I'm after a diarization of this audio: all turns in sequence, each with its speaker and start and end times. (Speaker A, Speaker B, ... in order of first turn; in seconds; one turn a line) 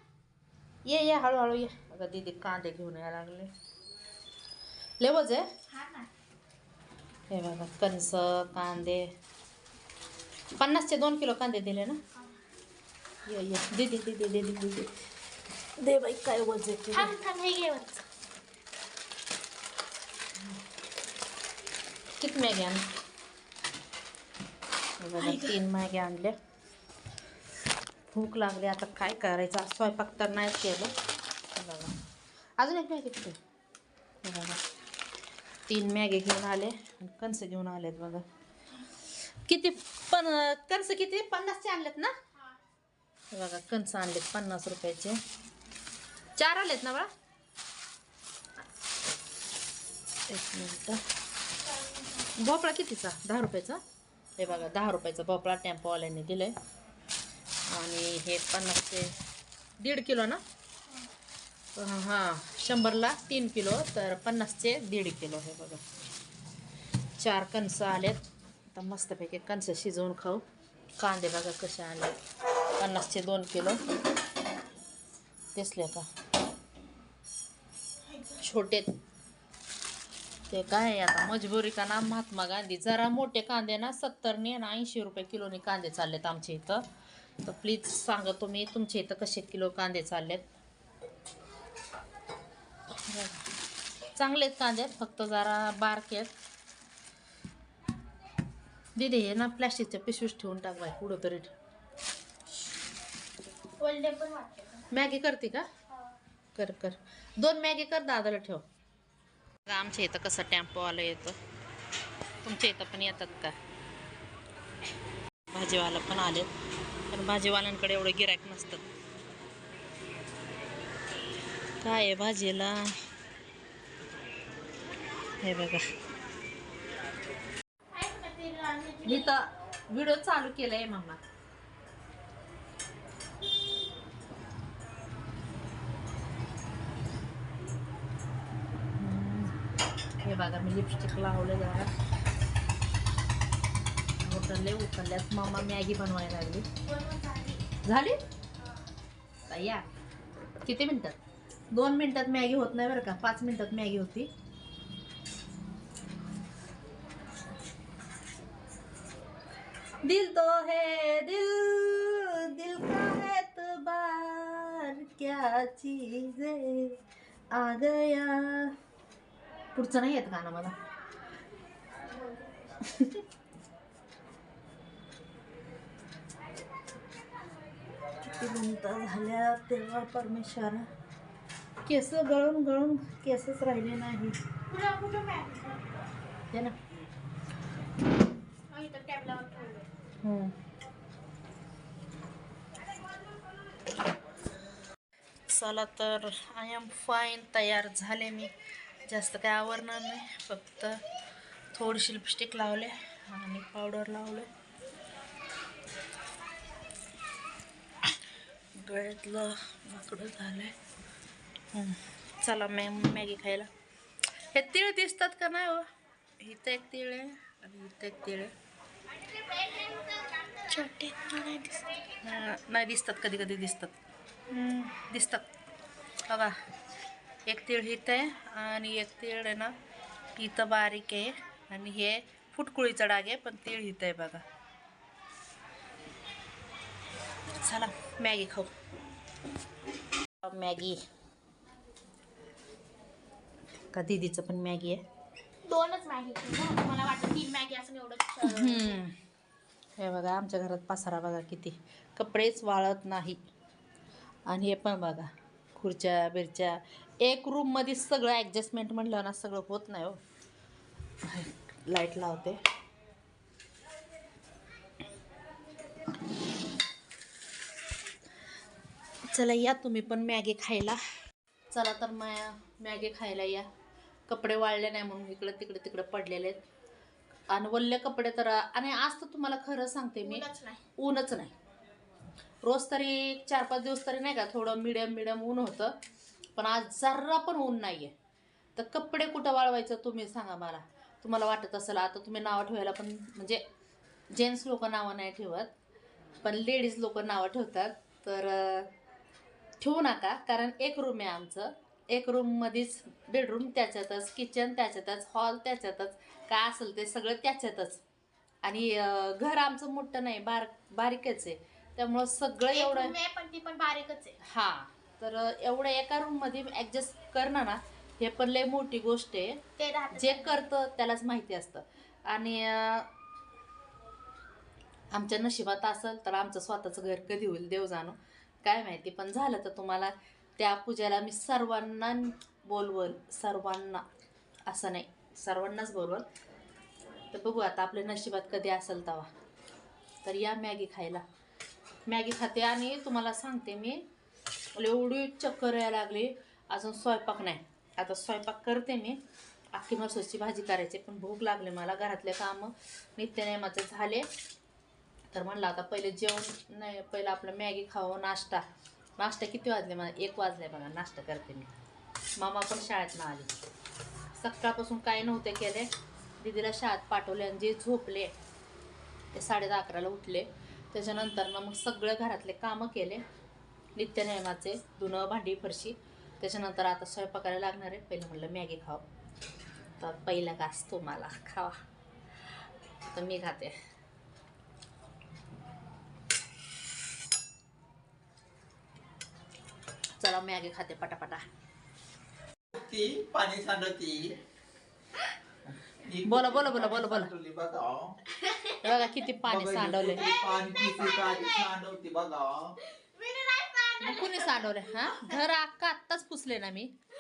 Speaker A: 0.8-3.5
Speaker A: 5.0-5.5
Speaker B: 5.7-6.1
Speaker A: 7.3-9.1
Speaker A: 10.6-12.0
Speaker A: 13.2-14.9
Speaker A: 15.8-17.1
Speaker B: 16.9-18.0
Speaker A: 22.2-22.9
Speaker A: 25.0-26.4
Speaker B: 25.2-25.6
Speaker A: 28.1-30.9
Speaker A: 31.5-31.9
Speaker A: 32.6-33.4
Speaker A: 34.2-34.6
Speaker A: 35.7-38.2
Speaker A: 39.4-42.1
Speaker A: 43.3-45.2
Speaker A: 46.4-47.1
Speaker A: 50.3-51.0
Speaker B: 51.7-52.2
Speaker A: 52.3-53.8
Speaker A: 54.4-56.5
Speaker A: 57.7-59.1
Speaker A: 59.8-60.4
Speaker A: 61.8-65.8
Speaker A: 67.2-68.2
Speaker A: 68.7-70.4
Speaker A: 71.0-72.2
Speaker A: 72.8-73.8
Speaker A: 75.5-76.1
Speaker A: 78.4-78.9
Speaker A: 80.5-86.8
Speaker A: 87.4-90.5
Speaker A: 93.1-93.5
Speaker A: 94.2-96.3
Speaker A: 98.9-101.5
Speaker B: 103.8-104.9
Speaker A: 104.9-105.7
Speaker A: 106.5-108.6
Speaker A: 109.7-111.4
Speaker A: 112.4-113.5
Speaker A: 115.5-116.5
Speaker A: 117.1-118.8
Speaker A: 121.8-123.0
Speaker A: 125.4-125.8
Speaker B: 127.9-129.3
Speaker A: 129.0-131.2
Speaker A: 139.0-139.6
Speaker A: 140.2-141.9
Speaker A: 144.2-146.7
Speaker B: 146.8-147.6
Speaker A: 147.8-148.2
Speaker A: 149.5-149.9
Speaker A: 150.6-151.2
Speaker A: 151.7-154.3
Speaker A: 160.0-167.0
Speaker A: 167.5-168.7
Speaker A: 169.7-170.7
Speaker A: 172.8-173.2
Speaker A: 178.2-180.9
Speaker A: 181.8-184.4
Speaker B: 184.7-186.0
Speaker A: 186.5-186.8
Speaker B: 188.7-189.9
Speaker A: 190.2-190.5
Speaker A: 195.5-198.5
Speaker A: 199.0-201.0
Speaker A: 201.7-204.5
Speaker A: 208.8-210.8
Speaker A: 211.7-213.7
Speaker A: 214.5-215.9
Speaker A: 216.4-218.5
Speaker A: 220.7-223.9
Speaker A: 224.5-225.4
Speaker A: 226.3-226.5
Speaker A: 227.4-229.7
Speaker A: 230.3-234.4
Speaker A: 237.6-238.7
Speaker A: 240.4-241.0
Speaker A: 243.9-245.0
Speaker B: 245.6-249.0
Speaker A: 248.4-249.1
Speaker A: 250.0-253.4
Speaker A: 254.4-260.2
Speaker A: 261.2-262.6
Speaker A: 269.3-271.0
Speaker A: 271.7-273.7
Speaker A: 274.3-276.6
Speaker A: 277.5-280.4
Speaker B: 280.2-280.8
Speaker A: 281.0-281.5
Speaker A: 282.6-285.9
Speaker A: 286.6-288.1
Speaker A: 288.8-293.6
Speaker A: 294.3-295.7
Speaker A: 296.4-298.9
Speaker A: 299.8-308.0
Speaker A: 308.6-313.1
Speaker B: 312.7-314.4
Speaker A: 314.4-319.6
Speaker B: 319.8-320.6
Speaker A: 320.1-323.1
Speaker A: 325.1-334.0
Speaker A: 334.7-336.2
Speaker A: 337.3-339.3
Speaker A: 340.2-341.2
Speaker A: 342.1-344.0
Speaker A: 344.7-349.2
Speaker A: 349.7-354.3
Speaker A: 355.3-358.6
Speaker A: 359.2-361.7
Speaker A: 362.4-363.5
Speaker A: 364.3-368.3
Speaker A: 369.3-373.2
Speaker A: 373.9-379.0
Speaker A: 380.0-381.8
Speaker A: 383.1-383.8
Speaker A: 390.2-391.4
Speaker C: 392.7-394.4
Speaker C: 395.9-398.2
Speaker A: 396.2-397.3
Speaker B: 398.4-399.1
Speaker A: 398.8-400.3
Speaker C: 399.5-402.8
Speaker B: 400.2-401.7
Speaker B: 403.0-405.3
Speaker A: 404.0-406.9